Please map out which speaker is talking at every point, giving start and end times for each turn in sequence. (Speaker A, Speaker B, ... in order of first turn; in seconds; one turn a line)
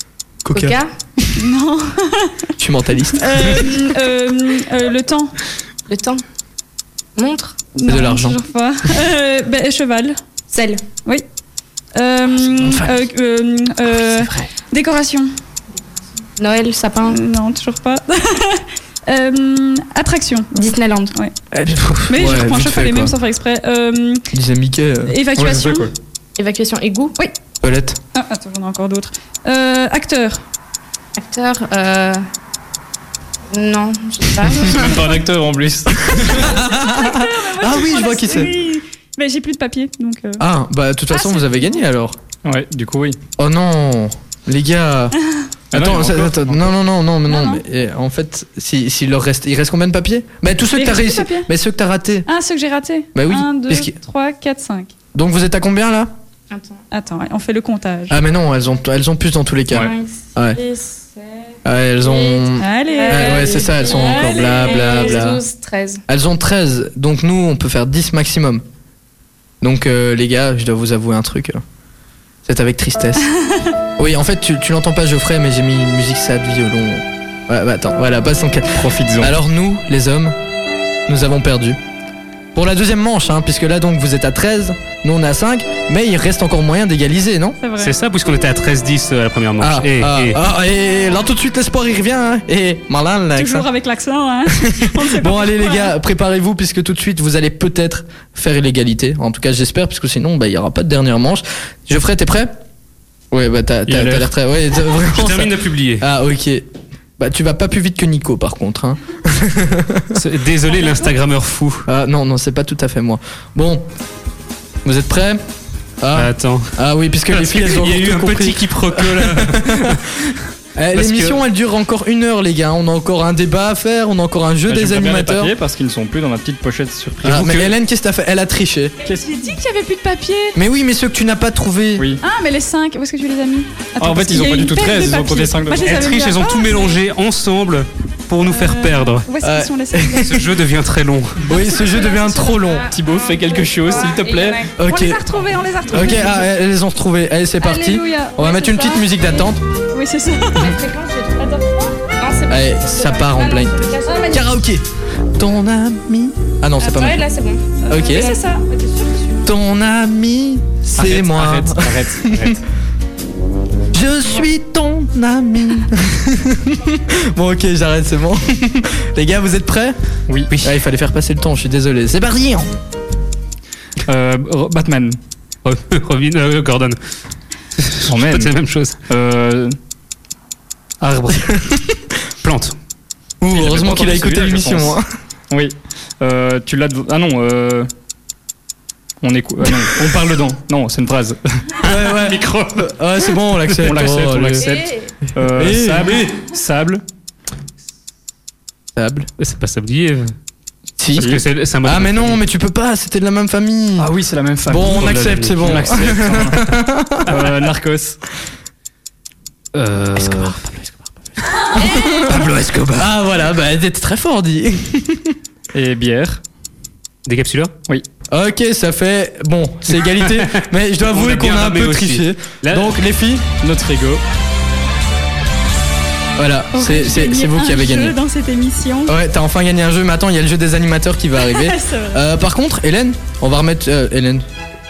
Speaker A: 0.4-1.4
Speaker B: 0.5-0.9
Speaker C: 1.4-2.3
Speaker A: 2.6-3.7
Speaker C: 3.2-5.3
Speaker B: 5.9-6.2
Speaker B: 7.2-7.6
Speaker C: 7.8-10.2
Speaker A: 7.9-8.4
Speaker B: 10.5-10.8
Speaker C: 11.9-15.3
Speaker A: 12.5-13.0
Speaker A: 14.0-14.5
Speaker B: 16.4-17.2
Speaker C: 17.1-20.5
Speaker B: 20.5-21.2
Speaker A: 21.5-23.1
Speaker C: 22.1-24.3
Speaker A: 24.3-25.6
Speaker C: 25.1-25.9
Speaker D: 25.4-25.9
Speaker B: 26.4-27.2
Speaker A: 27.6-28.0
Speaker C: 28.1-30.4
Speaker B: 31.2-32.2
Speaker B: 33.5-35.2
Speaker D: 34.6-36.5
Speaker A: 36.2-38.5
Speaker C: 36.3-40.4
Speaker A: 40.4-42.2
Speaker C: 41.1-41.8
Speaker D: 42.4-43.2
Speaker A: 43.4-45.2
Speaker A: 45.7-52.3
Speaker D: 45.7-46.8
Speaker C: 47.3-47.6
Speaker C: 50.7-51.5
Speaker C: 52.3-54.9
Speaker A: 53.1-54.0
Speaker A: 55.1-56.1
Speaker B: 56.5-56.8
Speaker C: 56.9-58.2
Speaker A: 58.1-60.6
Speaker B: 59.7-66.0
Speaker A: 61.6-65.4
Speaker C: 62.6-65.2
Speaker A: 66.1-68.6
Speaker A: 69.6-71.6
Speaker A: 72.5-73.3
Speaker A: 74.0-80.4
Speaker D: 78.7-79.3
Speaker A: 81.1-81.8
Speaker A: 82.5-87.6
Speaker C: 87.6-88.0
Speaker E: 87.8-90.4
Speaker A: 89.6-93.7
Speaker C: 93.4-95.9
Speaker A: 94.6-102.5
Speaker A: 103.3-106.7
Speaker D: 103.9-104.3
Speaker E: 104.9-106.1
Speaker A: 107.2-110.2
Speaker E: 110.1-111.9
Speaker A: 111.9-113.8
Speaker A: 114.8-115.4
Speaker A: 116.0-120.0
Speaker E: 116.1-116.8
Speaker E: 117.3-120.3
Speaker A: 120.8-125.5
Speaker E: 120.9-121.4
Speaker D: 124.7-127.5
Speaker A: 127.2-128.9
Speaker E: 127.3-127.7
Speaker C: 129.1-130.6
Speaker A: 130.6-132.1
Speaker D: 132.0-132.2
Speaker C: 132.2-137.0
Speaker D: 134.0-136.0
Speaker E: 135.8-139.3
Speaker C: 138.4-140.4
Speaker A: 139.4-140.4
Speaker E: 140.2-141.4
Speaker A: 141.4-142.8
Speaker C: 141.5-142.7
Speaker B: 142.0-144.8
Speaker D: 142.9-144.7
Speaker A: 144.8-145.2
Speaker C: 144.8-146.5
Speaker A: 145.9-149.6
Speaker C: 147.6-150.8
Speaker B: 150.5-154.5
Speaker A: 152.5-153.7
Speaker C: 154.0-154.5
Speaker A: 154.3-154.8
Speaker A: 155.4-157.2
Speaker B: 156.8-158.4
Speaker C: 157.8-159.4
Speaker A: 157.9-158.3
Speaker A: 159.4-162.6
Speaker D: 161.0-162.6
Speaker A: 163.9-170.0
Speaker A: 170.6-172.7
Speaker D: 174.1-175.2
Speaker E: 175.6-177.0
Speaker E: 177.8-179.0
Speaker D: 178.1-178.5
Speaker D: 179.1-179.8
Speaker E: 181.0-181.6
Speaker A: 181.5-182.0
Speaker E: 182.4-182.8
Speaker A: 183.4-185.1
Speaker D: 183.5-185.0
Speaker D: 185.5-187.9
Speaker D: 189.2-191.7
Speaker E: 191.8-194.9
Speaker A: 191.8-194.7
Speaker B: 194.6-195.1
Speaker D: 195.3-197.0
Speaker A: 195.4-196.2
Speaker A: 199.0-199.3
Speaker E: 199.4-200.3
Speaker A: 201.0-204.1
Speaker E: 201.2-202.4
Speaker D: 201.2-201.4
Speaker D: 204.0-206.7
Speaker A: 204.7-207.5
Speaker E: 204.7-206.4
Speaker D: 207.3-208.2
Speaker E: 209.7-213.1
Speaker A: 211.8-212.4
Speaker B: 211.9-212.2
Speaker A: 212.9-215.4
Speaker D: 215.7-216.4
Speaker E: 217.3-217.7
Speaker A: 218.3-223.4
Speaker E: 219.9-223.0
Speaker D: 223.6-224.2
Speaker A: 226.4-228.2
Speaker C: 226.7-229.2
Speaker A: 229.1-234.4
Speaker C: 231.4-232.2